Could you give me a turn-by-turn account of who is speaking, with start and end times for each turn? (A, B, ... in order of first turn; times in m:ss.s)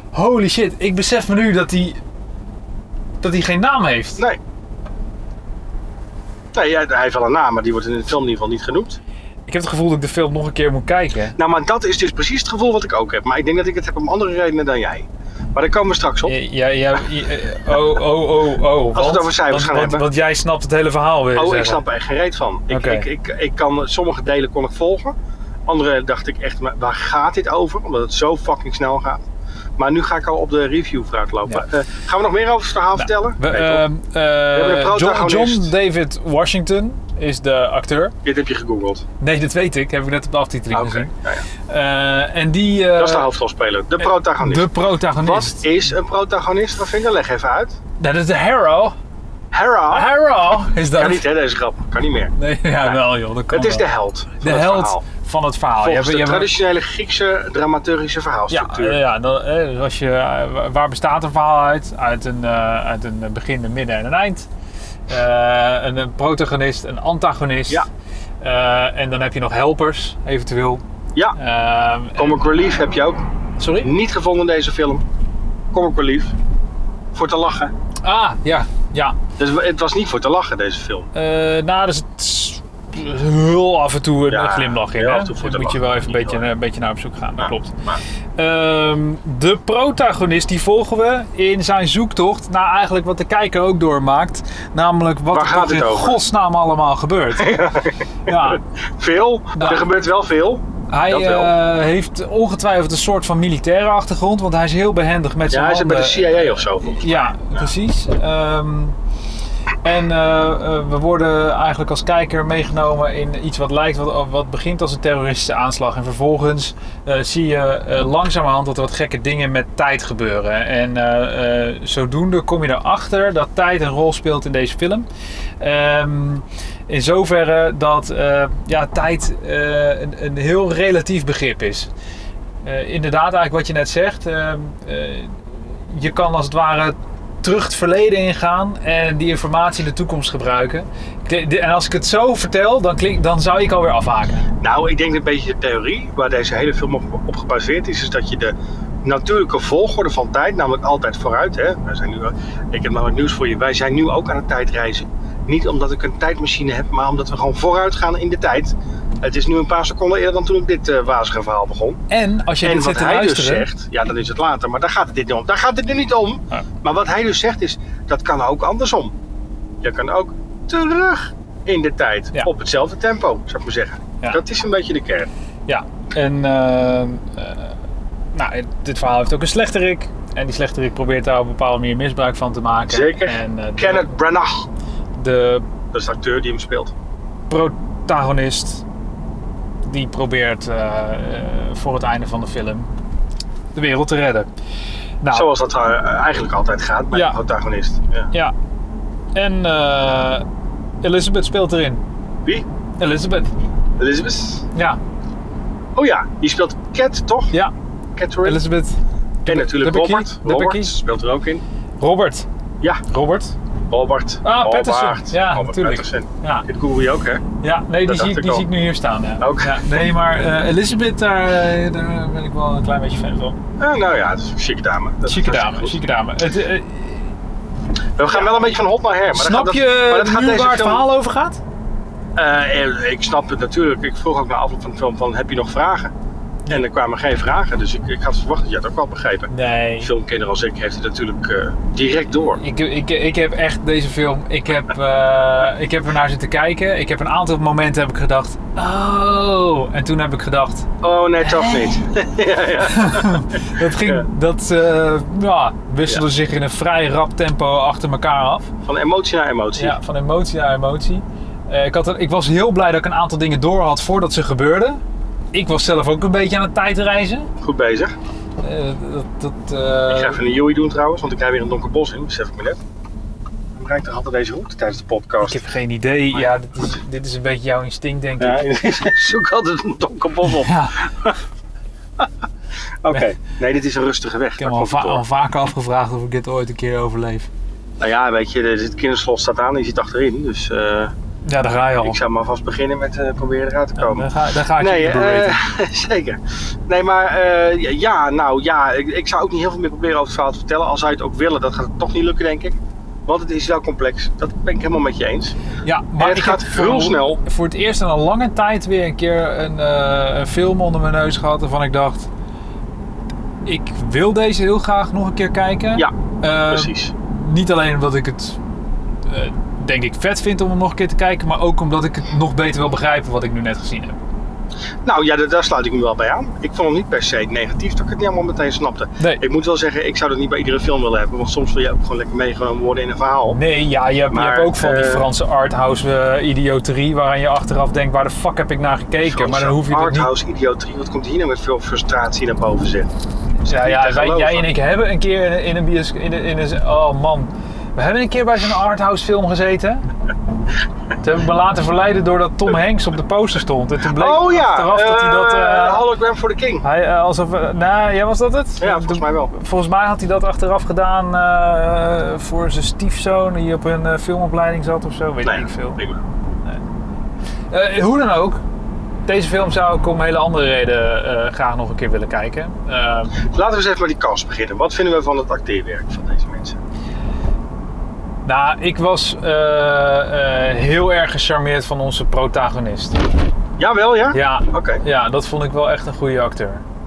0:00.1-0:02.0 A
0:03.2-0:04.2 A
0:06.5-0:09.0 B
0:09.5-0:11.4 A
0:11.4-0:16.4 B
0:16.3-0:21.8 A
0:19.0-0:20.1 B
0:21.4-0:25.2 B
0:22.7-0:23.1 A
0:25.7-0:29.2 B
0:29.8-0:33.9 B
0:33.0-0:38.2 A
0:34.5-0:35.7 B
0:38.2-0:39.0 B
0:39.2-0:41.1 A
0:40.7-0:41.5 B
0:41.7-0:43.3 A
0:43.0-0:44.7 B
0:44.4-0:45.8 A
0:45.2-0:47.8 B
0:48.0-0:49.0 A
0:49.5-0:50.1 B
0:49.9-0:51.3 A
0:51.0-0:52.4 B
0:52.4-0:53.9 A
0:53.5-0:55.0 B
0:54.4-0:56.5 A
0:55.8-0:59.0 B
0:58.5-1:04.5 A
1:05.1-1:07.9 A
1:08.4-1:10.8 A
1:11.4-1:12.8 A
1:12.2-1:13.2 B
1:13.6-1:13.9 A
1:13.8-1:15.0 B
1:15.7-1:16.4 B
1:17.1-1:17.7 B
1:18.0-1:19.2 A
1:19.4-1:21.1 B
1:21.1-1:27.8 A
1:24.3-1:26.4 B
1:27.4-1:28.0 B
1:28.4-1:37.6 A
1:35.3-1:36.2 B
1:37.4-1:41.5 B
1:38.3-1:38.6 A
1:39.6-1:39.9 A
1:40.9-1:49.0 A
1:45.5-1:47.7 B
1:49.8-2:05.1 A
2:05.6-2:11.9 A
2:12.6-2:24.5 A
2:24.6-2:42.0 B
2:42.1-2:43.7 A
2:42.6-2:49.2 B
2:49.8-2:55.3 B
2:55.7-2:57.8 A
2:58.3-3:04.2 A
3:02.9-3:04.7 B
3:05.2-3:05.7 A
3:05.9-3:06.9 B
3:07.5-3:08.8 A
3:09.8-3:12.9 A
3:13.7-3:14.5 A
3:15.2-3:15.5 A
3:15.3-3:18.3 B
3:17.1-3:17.4 A
3:19.3-3:20.5 A
3:21.0-3:22.0 A
3:23.0-3:23.5 A
3:24.0-3:24.7 B
3:24.7-3:25.0 A
3:26.0-3:27.6 B
3:28.2-3:28.6 B
3:28.4-3:30.9 A
3:29.5-3:31.6 B
3:32.0-3:32.5 A
3:33.1-3:33.6 A
3:33.9-3:37.4 B
3:34.4-3:36.7 A
3:37.6-3:43.6 A
3:38.1-3:38.6 B
3:39.4-3:39.8 B
3:43.8-3:46.0 B
3:45.3-3:47.3 A
3:48.2-3:51.0 B
3:48.3-3:48.6 A
3:49.3-3:51.6 A
3:52.4-3:56.1 B
3:56.7-4:02.6 B
3:59.5-4:00.1 A
4:02.6-4:10.9 A
4:11.0-4:14.3 B
4:11.4-4:12.0 A
4:12.8-4:18.7 A
4:18.8-4:20.0 B
4:19.8-4:25.0 A
4:25.5-4:27.5 A
4:27.6-4:28.1 B
4:28.6-4:30.4 A
4:30.1-4:32.8 B
4:33.8-4:35.6 B
4:35.4-4:38.7 A
4:38.4-4:41.4 B
4:40.4-4:41.0 A
4:43.0-4:45.2 B
4:44.6-4:47.5 A
4:48.0-4:51.1 B
4:51.4-4:52.2 A
4:52.0-5:05.6 B
4:54.0-4:55.6 A
5:05.8-5:12.3 A
5:06.2-5:07.4 B
5:13.6-5:18.6 A
5:16.7-5:17.1 B
5:19.2-5:24.2 A
5:25.0-5:33.6 B
5:33.5-5:40.3 A
5:34.3-5:35.3 B
5:39.3-5:43.1 B
5:43.6-5:50.0 A
5:43.6-5:44.7 B
5:51.2-5:56.1 A
5:54.1-5:56.8 B
5:56.8-6:06.0 A
5:58.8-5:59.5 B
6:05.4-6:06.2 B
6:07.7-6:08.6 A
6:09.2-6:13.3 A
6:13.4-6:16.8 B
6:18.4-6:23.2 A
6:23.8-6:25.0 B
6:24.3-6:26.8 A